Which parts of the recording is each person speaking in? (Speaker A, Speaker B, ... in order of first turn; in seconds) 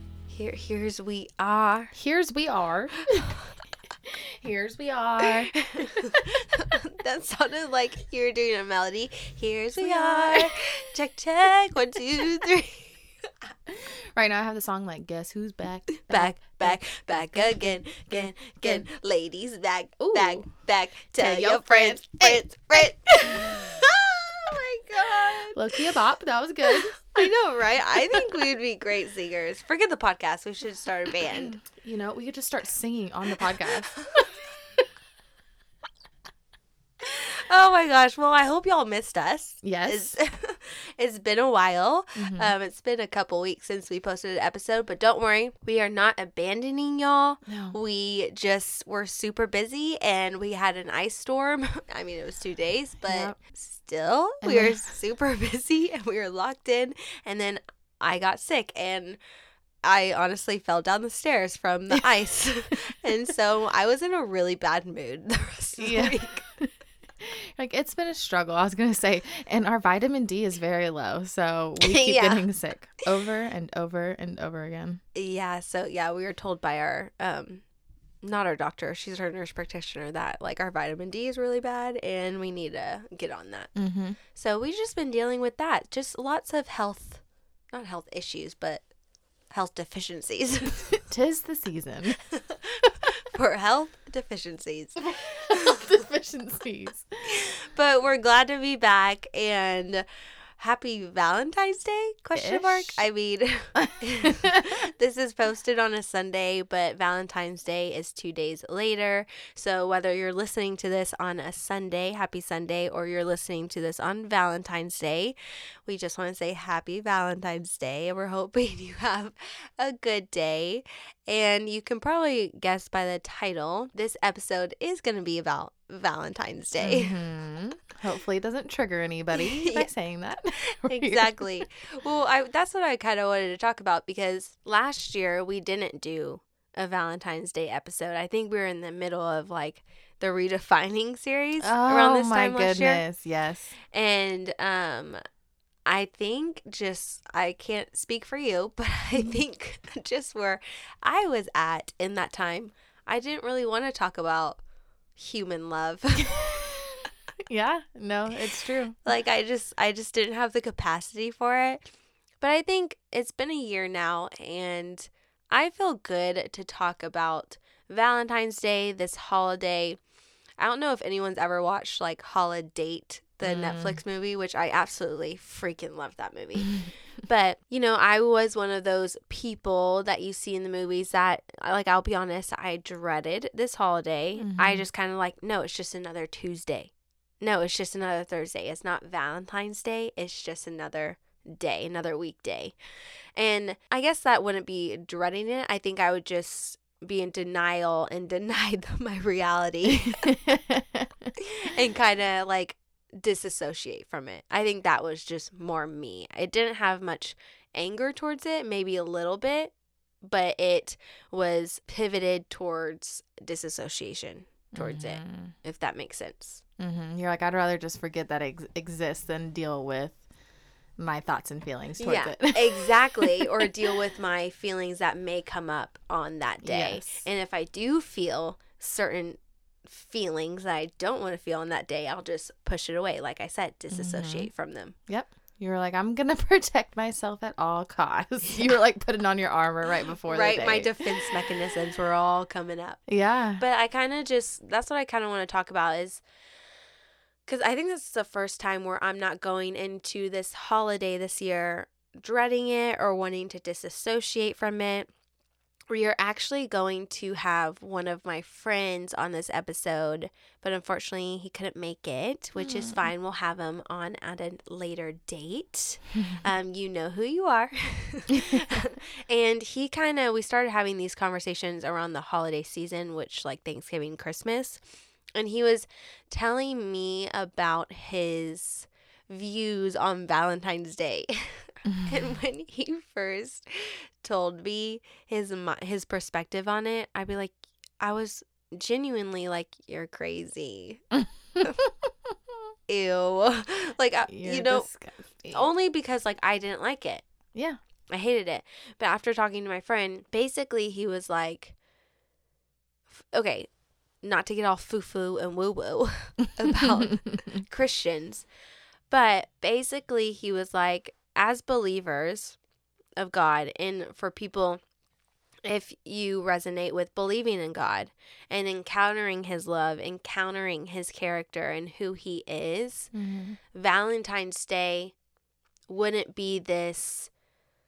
Speaker A: 0.3-1.9, 5.8-13.0, 16.0-25.6, 27.1-31.6, 34.0-34.2, 37.0-59.2, 59.8-66.4, 71.8-72.5, 75.1-77.6, 78.2-83.7, 84.3-88.8, 89.5-91.0, 92.3-95.8, 97.3-100.0, 100.6-127.2, 129.3-129.9, 130.6-143.0, 143.9-145.2, 145.8-154.6, 155.2-156.8, 159.0-161.8, 162.4-170.0, 170.6-192.7, 193.3-200.3, 201.4-216.6, 222.0-234.9, 240.3-243.0, 243.6-246.2, 247.4-255.1, 255.9-274.8, 275.3-291.0, 292.9-294.9, 295.5-297.2, 298.1-301.7, 303.2-308.5, 309.1-312.6, 313.2-314.8, 315.6-323.1, 323.7-325.1, 325.9-327.3
Speaker B: 1.9-3.3, 4.0-6.2, 9.8-10.9, 13.7-18.8, 20.0-20.5, 21.1-23.6, 25.5-27.3, 28.0-28.2, 31.6-33.9, 39.6-40.1, 42.2-42.5, 47.5-47.8, 53.0-53.4, 54.4-54.9, 65.8-66.7, 67.2-75.0, 83.7-84.2, 91.1-92.2, 95.5-97.0, 102.3-103.0, 103.7-104.7, 126.8-131.3, 141.6-143.7, 157.4-159.0, 173.4-174.0, 184.4-184.8, 200.1-201.3, 214.7-215.5, 216.8-220.2, 221.0-223.7, 226.6-227.2, 233.9-234.5, 235.1-241.3, 243.1-243.6, 262.6-263.1, 268.3-268.6, 281.9-282.1, 291.1-291.9, 294.3-295.7, 323.1-323.6